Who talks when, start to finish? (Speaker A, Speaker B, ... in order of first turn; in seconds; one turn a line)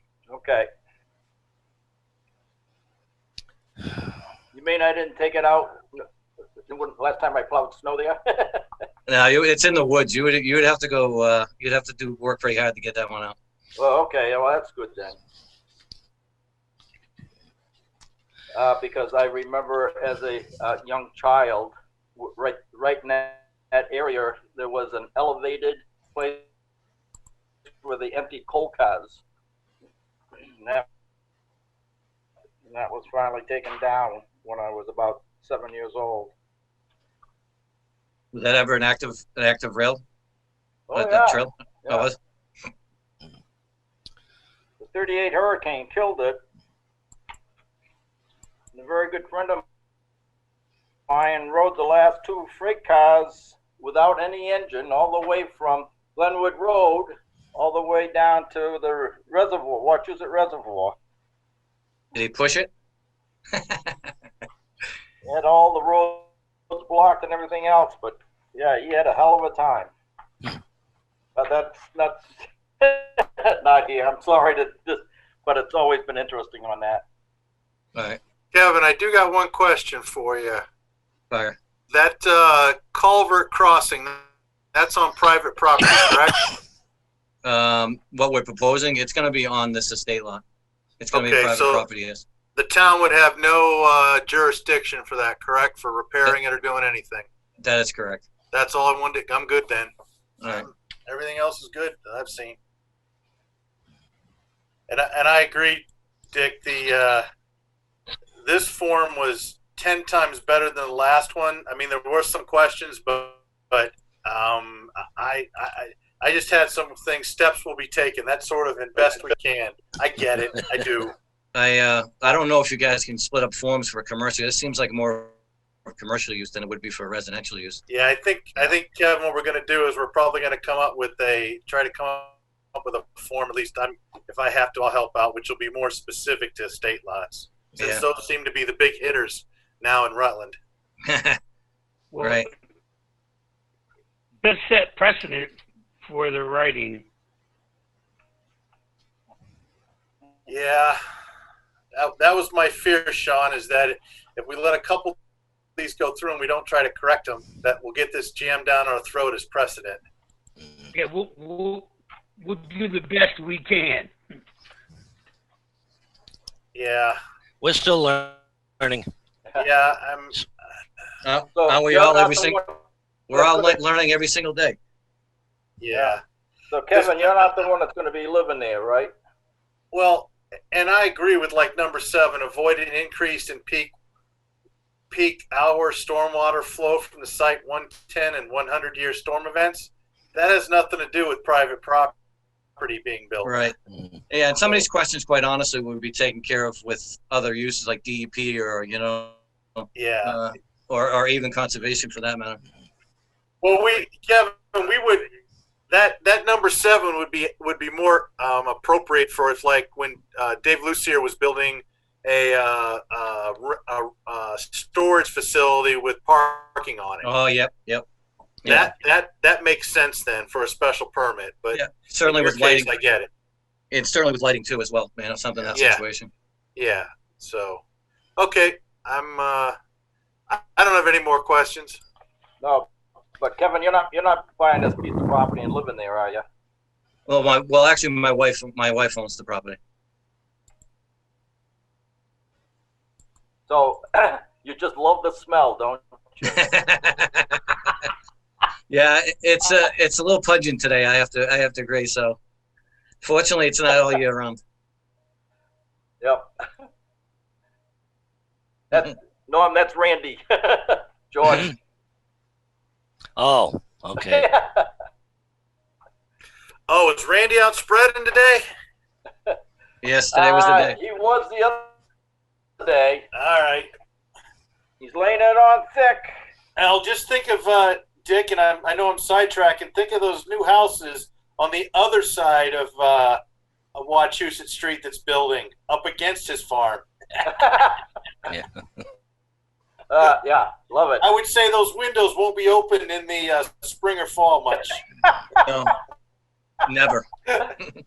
Speaker A: 0.3-0.7
Speaker A: 4.5-6.0
Speaker A: 6.7-8.7
Speaker B: 9.1-13.4
Speaker A: 13.8-15.2
Speaker A: 18.5-26.4
Speaker A: 27.8-29.2
Speaker A: 30.4-30.8
Speaker A: 32.6-36.3
Speaker B: 38.3-40.0
Speaker A: 40.9-42.1
Speaker B: 40.9-42.1
Speaker A: 44.8-46.4
Speaker A: 48.7-49.6
Speaker A: 51.1-61.0
Speaker B: 62.1-62.7
Speaker B: 63.5-63.9
Speaker A: 65.2-69.9
Speaker A: 71.3-77.0
Speaker B: 77.9-78.2
Speaker C: 78.5-80.6
Speaker B: 81.3-81.5
Speaker C: 81.9-84.2
Speaker C: 84.7-86.5
Speaker B: 87.4-90.4
Speaker B: 91.0-92.2
Speaker C: 91.1-91.8
Speaker C: 92.5-97.2
Speaker B: 97.6-98.2
Speaker C: 98.5-99.9
Speaker C: 100.5-102.6
Speaker C: 104.9-107.2
Speaker C: 108.4-121.1
Speaker B: 121.5-125.3
Speaker B: 125.8-127.8
Speaker C: 127.9-140.6
Speaker B: 137.7-138.0
Speaker B: 141.1-141.4
Speaker D: 142.1-142.5
Speaker B: 142.2-142.4
Speaker D: 144.4-147.0
Speaker C: 150.5-151.0
Speaker C: 151.9-155.2
Speaker C: 155.8-160.0
Speaker E: 160.6-160.9
Speaker D: 160.9-161.9
Speaker D: 162.4-164.1
Speaker C: 166.7-167.2
Speaker E: 167.6-169.1
Speaker C: 169.6-170.4
Speaker B: 171.2-172.6
Speaker A: 171.5-172.8
Speaker B: 173.3-174.8
Speaker A: 173.3-173.8
Speaker C: 175.8-176.2
Speaker A: 175.9-176.2
Speaker A: 176.7-179.1
Speaker C: 176.9-177.6
Speaker C: 179.9-183.9
Speaker C: 185.1-192.1
Speaker C: 192.8-193.7
Speaker B: 193.4-193.7
Speaker E: 193.9-194.2
Speaker B: 194.3-202.6
Speaker C: 199.9-200.3
Speaker C: 203.6-205.3
Speaker C: 205.9-217.3
Speaker B: 217.2-218.0
Speaker B: 218.6-218.9
Speaker C: 218.6-223.3
Speaker B: 221.7-223.0
Speaker B: 223.9-226.3
Speaker C: 225.7-226.0
Speaker C: 226.8-227.8
Speaker C: 228.4-229.8
Speaker C: 230.5-232.0
Speaker A: 232.6-232.9
Speaker A: 233.4-236.4
Speaker B: 237.2-239.8
Speaker A: 243.7-246.8
Speaker B: 246.6-247.6
Speaker B: 248.9-252.4
Speaker B: 253.2-254.6
Speaker A: 256.2-256.4
Speaker A: 258.9-261.7
Speaker E: 263.4-264.5
Speaker A: 264.2-264.9
Speaker C: 266.9-268.6
Speaker B: 270.0-270.9
Speaker A: 270.3-271.9
Speaker A: 272.8-273.2
Speaker C: 273.3-273.9
Speaker A: 275.0-276.3
Speaker C: 276.8-283.4
Speaker C: 283.9-287.0
Speaker A: 287.4-288.0
Speaker E: 288.5-289.0
Speaker A: 290.1-291.2
Speaker C: 291.2-295.0
Speaker B: 296.9-297.2